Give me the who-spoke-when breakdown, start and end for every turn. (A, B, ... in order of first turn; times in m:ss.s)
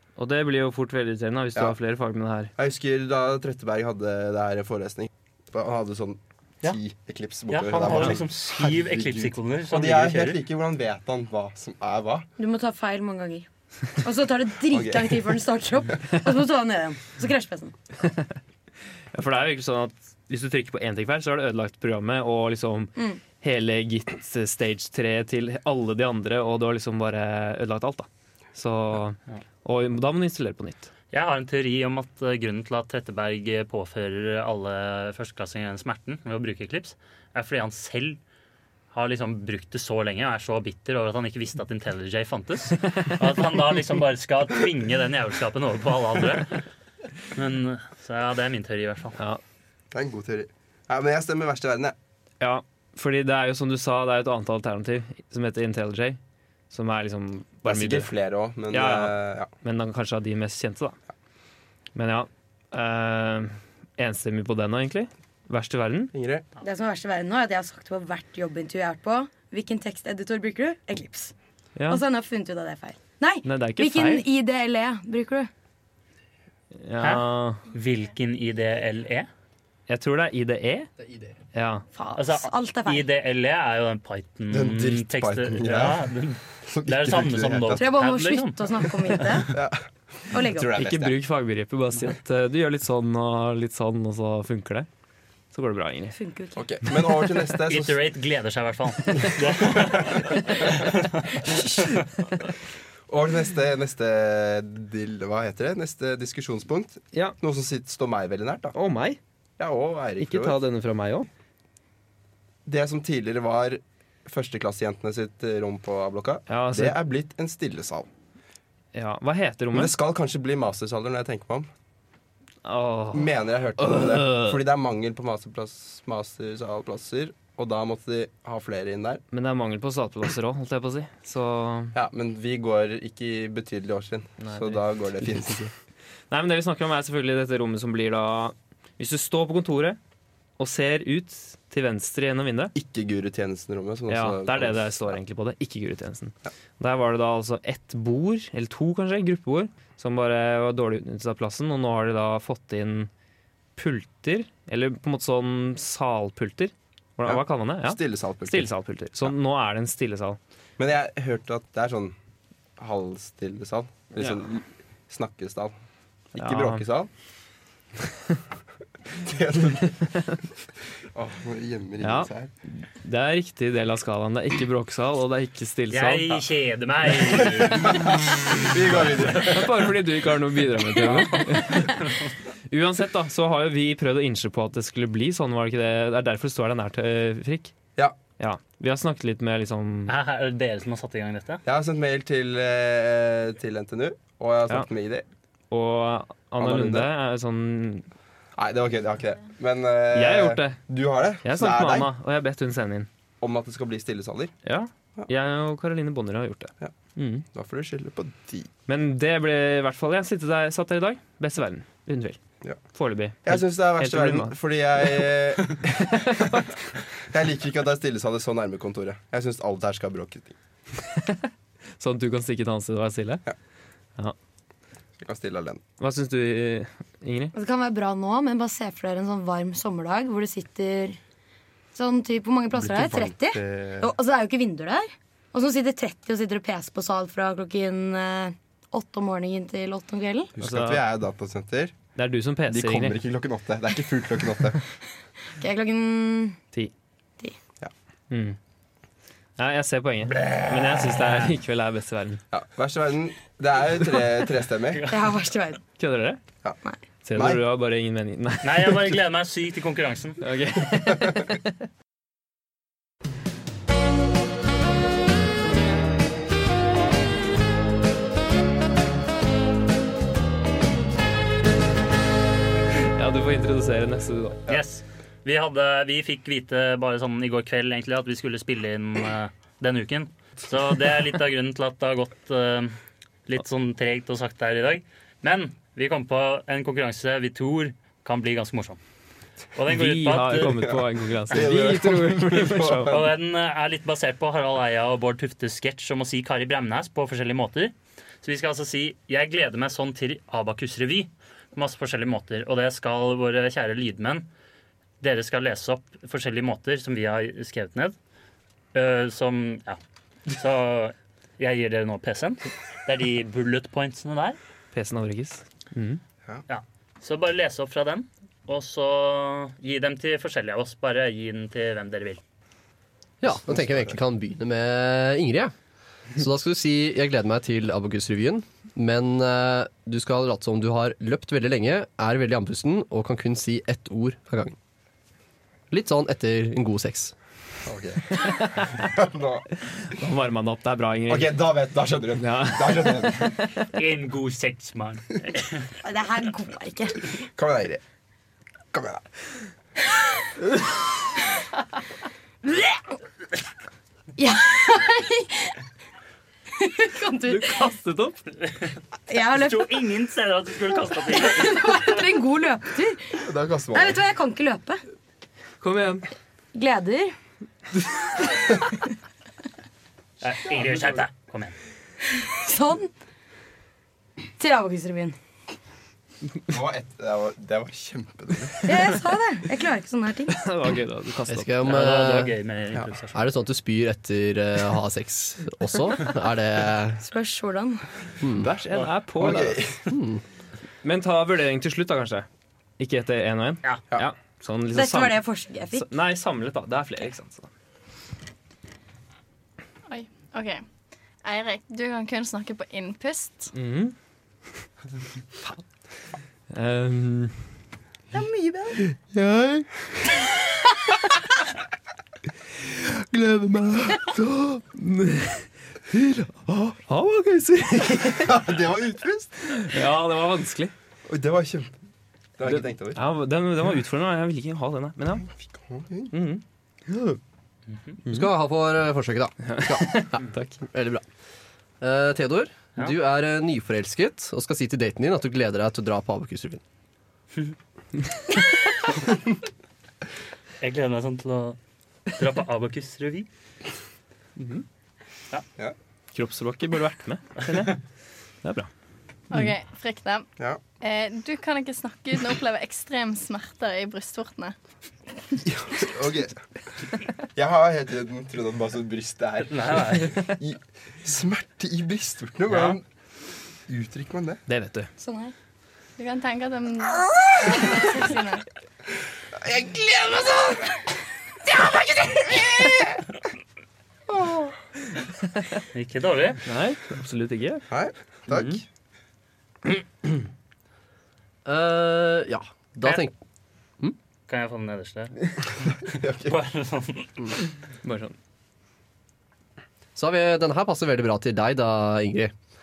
0:00.2-0:02.5 A
0:02.6-0:12.3 B
0:07.5-0:10.4 C
0:12.4-0:17.7 D
0:14.7-0:15.3 B
0:18.0-0:18.3 A
0:19.1-0:30.9 A
0:31.1-0:38.2 C
0:38.9-0:46.6 C
0:47.3-0:49.2 C
0:49.9-0:51.9 B
0:52.4-0:56.2 A
0:56.7-0:58.1 A
0:57.6-0:59.5 B
0:58.7-1:01.0 A
1:01.9-1:06.1 A
1:06.1-1:06.4 B
1:06.6-1:11.3 D
1:11.8-1:12.0 A
1:11.9-1:15.5 D
1:13.4-1:14.2 A
1:16.8-1:17.6 A
1:17.0-1:19.3 C
1:19.9-1:20.9 A
1:21.5-1:21.8 A
1:21.9-1:23.1 D
1:22.2-1:28.6 C
1:24.5-1:26.0 B
1:26.6-1:27.9 B
1:27.8-1:29.5 D
1:29.5-1:31.2 B
1:30.3-1:30.7 D
1:30.8-1:34.9 A
1:35.5-1:36.2 A
1:36.1-1:36.6 D
1:36.6-1:38.0 B
1:37.7-1:42.0 C
1:39.6-1:40.2 B
1:43.1-1:48.7 B
1:48.7-1:49.2 A
1:49.6-1:50.6 B
1:50.2-1:51.3 A
1:52.6-1:58.1 B
1:56.5-1:57.0 A
1:58.9-1:59.9 A
1:59.7-2:01.7 B
2:02.6-2:04.6 A
2:03.1-2:09.2 B
2:09.3-2:11.9 A
2:11.9-2:15.7 B
2:14.4-2:15.7 A
2:16.3-2:20.0 A
2:20.6-2:22.7 A
2:22.7-2:25.2 B
2:24.1-2:33.1 A
2:33.8-2:40.4 A
2:37.2-2:38.7 B
2:40.8-2:42.2 B
2:42.8-2:45.7 B
2:46.3-2:47.1 B
2:46.4-2:46.8 A
2:49.1-2:49.9 B
2:50.1-2:50.4 A
2:51.1-2:52.5 B
2:52.0-2:56.4 A
2:55.9-2:58.6 C
2:57.6-2:59.9 B
2:59.4-3:02.1 A
3:01.0-3:02.3 C
3:02.7-3:07.7 A
3:08.4-3:10.1 A
3:10.1-3:11.6 C
3:11.6-3:15.2 B
3:15.7-3:18.1 A
3:16.6-3:17.1 B
3:18.6-3:22.1 B
3:20.1-3:20.8 A
3:21.4-3:23.1 A
3:23.4-3:24.5 B
3:24.6-3:27.4 A
3:27.5-3:28.7 B
3:28.9-3:32.4 A
3:32.9-3:34.6 A
3:33.4-3:36.6 B
3:36.1-3:36.7 A
3:37.3-3:40.6 B
3:41.0-3:41.5 A
3:42.0-3:43.4 A
3:45.2-3:45.8 B
3:46.0-3:47.5 A
3:47.5-3:51.2 D
3:51.9-4:00.5 D
3:52.7-3:54.1 B
4:00.6-4:02.0 B
4:00.6-4:01.0 A
4:02.1-4:03.2 A
4:02.7-4:04.8 B
4:05.6-4:06.6 D
4:08.3-4:08.6 A
4:09.6-4:12.4 A
4:10.3-4:11.1 B
4:12.5-4:15.0 B
4:15.1-4:15.8 D
4:16.0-4:16.4 A
4:17.2-4:19.2 A
4:17.3-4:17.6 B
4:18.6-4:20.4 C
4:20.4-4:21.7 A
4:32.9-4:34.6 A
4:34.7-4:43.0 C
4:43.5-4:49.0 C
4:49.7-4:50.9 C
4:49.9-4:53.2 A
4:50.6-4:53.3 B
4:53.1-5:04.5 C
5:05.2-5:08.2 C
5:08.9-5:14.6 C
5:14.9-5:16.2 A
5:16.7-5:22.4 C
5:23.4-5:25.7 E
5:23.4-5:24.2 B
5:26.4-5:34.8 E
5:35.9-5:37.3 E
5:37.8-5:39.7 B
5:38.4-5:39.0 A
5:39.9-5:41.5 A
5:41.3-5:43.6 B
5:42.4-5:43.9 A
5:43.9-5:45.9 C
5:46.0-5:47.2 D
5:47.5-5:48.0 B
5:48.9-5:49.2 B
5:54.4-5:55.7 D
5:56.8-5:57.9 D
5:57.4-5:58.4 A
5:59.3-6:00.0 D
5:59.5-6:02.1 C
6:01.4-6:05.0 D
6:03.4-6:04.2 B
6:05.8-6:06.2 A
6:06.7-6:07.3 D
6:10.4-6:11.8 C
6:12.4-6:13.1 D
6:14.6-6:15.4 D
6:16.7-6:18.8 B
6:18.8-6:20.6 D
6:20.5-6:21.9 A
6:21.5-6:22.5 E
6:21.8-6:23.4 C
6:23.3-6:27.2 E
6:27.2-6:28.0 D
6:28.4-6:28.7 E
6:28.6-6:29.8 A
6:29.4-6:30.0 B
6:30.1-6:30.4 E
6:31.0-6:32.4 A
6:33.0-6:35.4 A
6:34.9-6:36.0 D
6:35.9-6:37.7 A
6:40.1-6:40.8 F
6:41.4-6:43.7 F
6:43.7-6:44.1 A
6:46.7-6:47.8 A
6:48.3-6:49.0 D
6:49.0-6:50.0 A
6:52.7-6:58.7 A
6:58.3-6:59.8 B
6:59.7-7:00.9 A
7:01.3-7:01.9 B
7:02.6-7:03.2 B
7:02.6-7:05.5 A
7:05.5-7:06.3 B
7:06.3-7:07.4 A
7:08.2-7:08.5 A
7:08.3-7:11.2 E
7:09.6-7:10.8 A
7:12.0-7:16.8 E
7:20.8-7:21.8 C
7:22.3-7:23.5 C
7:24.6-7:24.8 A
7:26.3-7:28.0 A
7:28.6-7:28.9 A
7:29.5-7:30.5 F
7:31.0-7:34.8 F
7:35.6-7:36.6 B
7:37.5-7:43.0 B
7:39.6-7:40.3 C
7:42.7-7:43.0 C
7:43.9-7:44.6 B
7:44.7-7:45.1 A
7:45.2-7:45.5 D
7:46.2-7:48.6 F
7:47.1-7:47.9 B
7:49.5-7:51.1 B
7:51.6-7:53.2 B
7:54.3-7:54.7 B
7:55.6-7:55.8 A
7:55.9-7:56.6 C
7:56.6-7:57.8 A
7:57.9-7:58.8 B
7:58.5-7:58.8 A
8:01.6-8:03.3 E
8:04.5-8:07.5 C
8:06.0-8:06.6 B
8:08.0-8:08.3 A
8:10.2-8:12.5 E